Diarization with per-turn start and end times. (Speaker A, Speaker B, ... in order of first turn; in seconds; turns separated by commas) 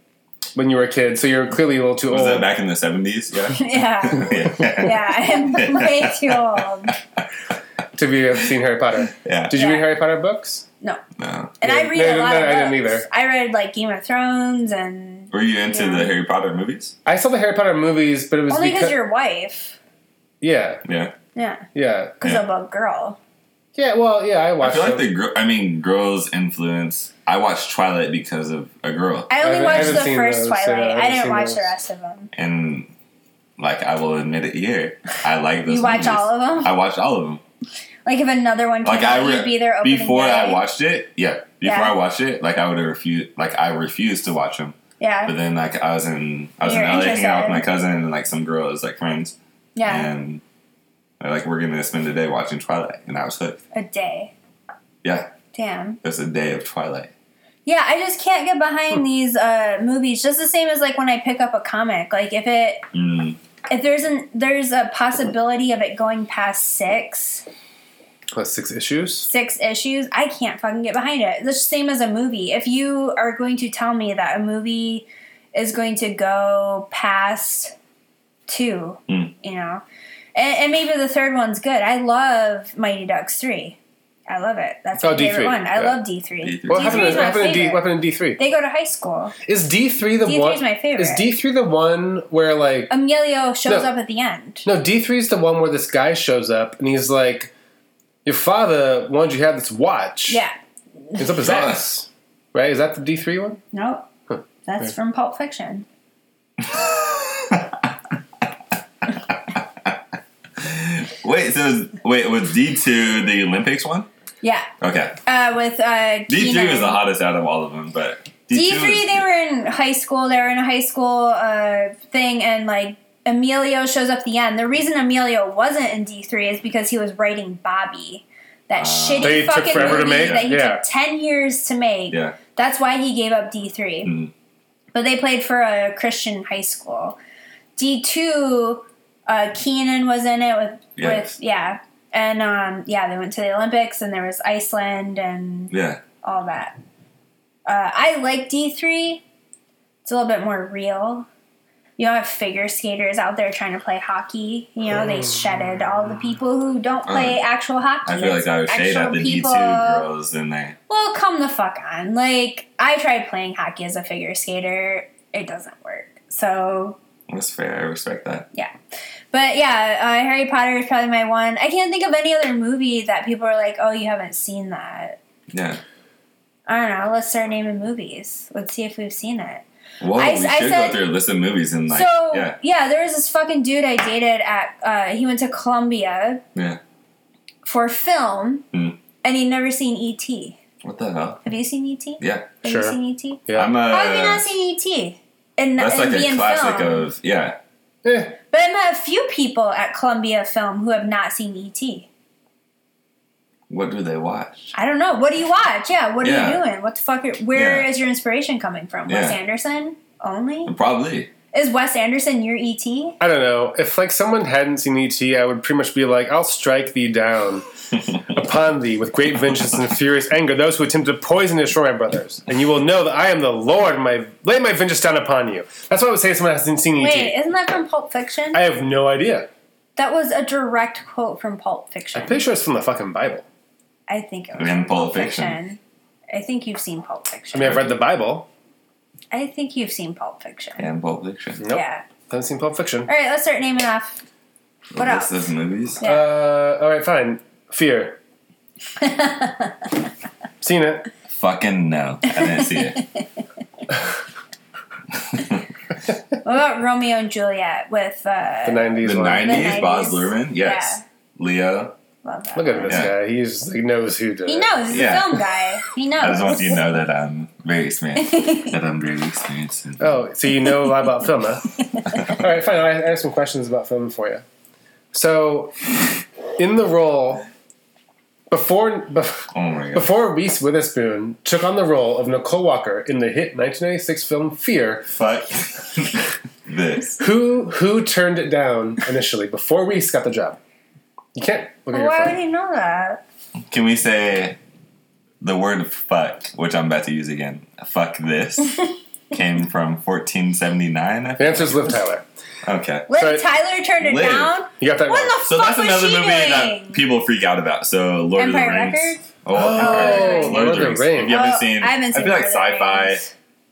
Speaker A: 0.5-2.5, Speaker B: 2.1-6.9, Speaker C: 3.5-6.9, Speaker A: 8.0-10.7, Speaker B: 9.2-9.5, Speaker C: 9.5-9.9, Speaker B: 11.2-11.5, Speaker C: 11.6-16.1, Speaker A: 11.6-13.1, Speaker B: 15.3-16.9, Speaker A: 17.1-18.9, Speaker C: 18.5-19.8, Speaker A: 20.4-20.8, Speaker B: 20.8-21.1, Speaker C: 21.3-21.6, Speaker A: 21.7-22.2, Speaker C: 22.2-23.2, Speaker A: 23.8-25.1, Speaker B: 24.6-30.1, Speaker C: 29.3-32.3, Speaker A: 29.4-31.7, Speaker B: 32.3-32.9, Speaker B: 33.6-37.4, Speaker C: 35.6-36.7, Speaker C: 38.0-40.6, Speaker B: 38.8-50.4, Speaker C: 41.6-42.0, Speaker C: 45.0-45.3, Speaker C: 46.6-47.6, Speaker C: 49.8-50.1, Speaker B: 51.2-53.6, Speaker C: 53.7-54.3, Speaker B: 55.0-55.3, Speaker C: 55.5-56.0, Speaker B: 56.0-57.1, Speaker C: 57.6-62.8, Speaker B: 62.9-63.4, Speaker C: 63.7-67.5, Speaker A: 68.3-69.3, Speaker C: 69.2-77.7, Speaker C: 78.5-79.8, Speaker C: 80.3-89.3, Speaker A: 85.0-86.0, Speaker B: 86.4-87.6, Speaker A: 86.7-88.4, Speaker A: 89.5-92.9, Speaker C: 90.2-91.3, Speaker C: 92.9-94.7, Speaker A: 94.6-97.5, Speaker A: 98.2-100.4, Speaker C: 100.3-100.5, Speaker A: 101.2-103.6, Speaker B: 101.4-101.8, Speaker C: 103.7-104.1, Speaker C: 104.6-105.8, Speaker B: 106.6-107.8, Speaker B: 109.5-110.0, Speaker B: 110.6-114.1, Speaker C: 114.4-114.7, Speaker B: 114.8-115.2, Speaker C: 115.2-117.0, Speaker B: 116.3-119.2, Speaker C: 118.5-134.1, Speaker B: 128.8-130.5, Speaker A: 129.2-130.8, Speaker B: 132.1-132.4, Speaker B: 134.0-134.3, Speaker C: 134.9-137.2, Speaker C: 137.8-146.7, Speaker B: 141.0-141.3, Speaker B: 145.7-146.0, Speaker C: 147.7-149.2, Speaker C: 150.0-151.3, Speaker C: 152.0-160.0, Speaker B: 157.1-157.4, Speaker B: 158.0-160.8, Speaker C: 160.9-167.0, Speaker B: 167.3-168.5, Speaker C: 169.3-175.2, Speaker B: 175.5-175.8, Speaker C: 176.7-181.0, Speaker B: 180.0-182.6, Speaker C: 181.9-186.4, Speaker B: 186.5-186.8, Speaker C: 187.6-188.7, Speaker B: 188.7-189.0, Speaker C: 189.2-190.6, Speaker B: 190.8-191.4, Speaker C: 191.4-197.1, Speaker B: 192.2-192.5, Speaker A: 192.6-193.7, Speaker B: 193.5-194.5, Speaker B: 195.8-197.6, Speaker A: 198.0-198.3, Speaker C: 198.5-202.1, Speaker B: 203.7-204.7, Speaker C: 204.7-210.7, Speaker B: 206.2-206.6, Speaker B: 207.5-207.9, Speaker B: 209.1-209.4, Speaker B: 210.7-211.3, Speaker C: 211.5-213.2, Speaker A: 213.2-217.7, Speaker A: 218.3-227.4, Speaker C: 227.0-228.6, Speaker A: 228.5-229.5, Speaker C: 229.9-232.4, Speaker A: 232.1-233.4, Speaker C: 234.1-235.8, Speaker B: 234.6-235.6, Speaker C: 236.3-237.9, Speaker A: 237.5-238.5, Speaker B: 237.6-237.9, Speaker C: 239.3-240.8, Speaker B: 240.8-241.6, Speaker A: 241.6-243.1, Speaker C: 241.7-242.0, Speaker C: 243.1-244.2, Speaker B: 244.9-246.0, Speaker C: 244.9-245.5, Speaker C: 246.0-246.3, Speaker A: 246.0-248.2, Speaker C: 249.0-249.9, Speaker A: 250.6-251.1, Speaker B: 251.3-253.0, Speaker C: 252.3-253.0, Speaker B: 255.1-255.6, Speaker C: 256.4-261.0, Speaker A: 258.6-259.8, Speaker B: 259.0-261.9, Speaker C: 262.2-263.1, Speaker A: 262.6-264.7, Speaker B: 262.9-263.1, Speaker C: 264.5-266.8, Speaker B: 264.9-265.4, Speaker B: 266.2-270.1, Speaker C: 268.2-268.7, Speaker A: 270.0-271.7, Speaker A: 272.2-274.4, Speaker A: 275.1-275.9, Speaker A: 276.6-277.4, Speaker A: 278.5-285.1, Speaker B: 279.5-280.1, Speaker B: 285.1-287.2, Speaker A: 287.2-290.6, Speaker A: 291.3-292.4, Speaker C: 291.9-293.2, Speaker B: 293.7-294.6, Speaker B: 295.4-298.8, Speaker B: 299.3-301.9, Speaker A: 301.4-302.2, Speaker B: 302.6-303.1, Speaker C: 303.1-307.0, Speaker A: 303.2-303.4, Speaker B: 304.0-304.5, Speaker A: 304.8-305.4, Speaker B: 305.4-313.2, Speaker C: 308.4-313.3, Speaker A: 309.5-311.4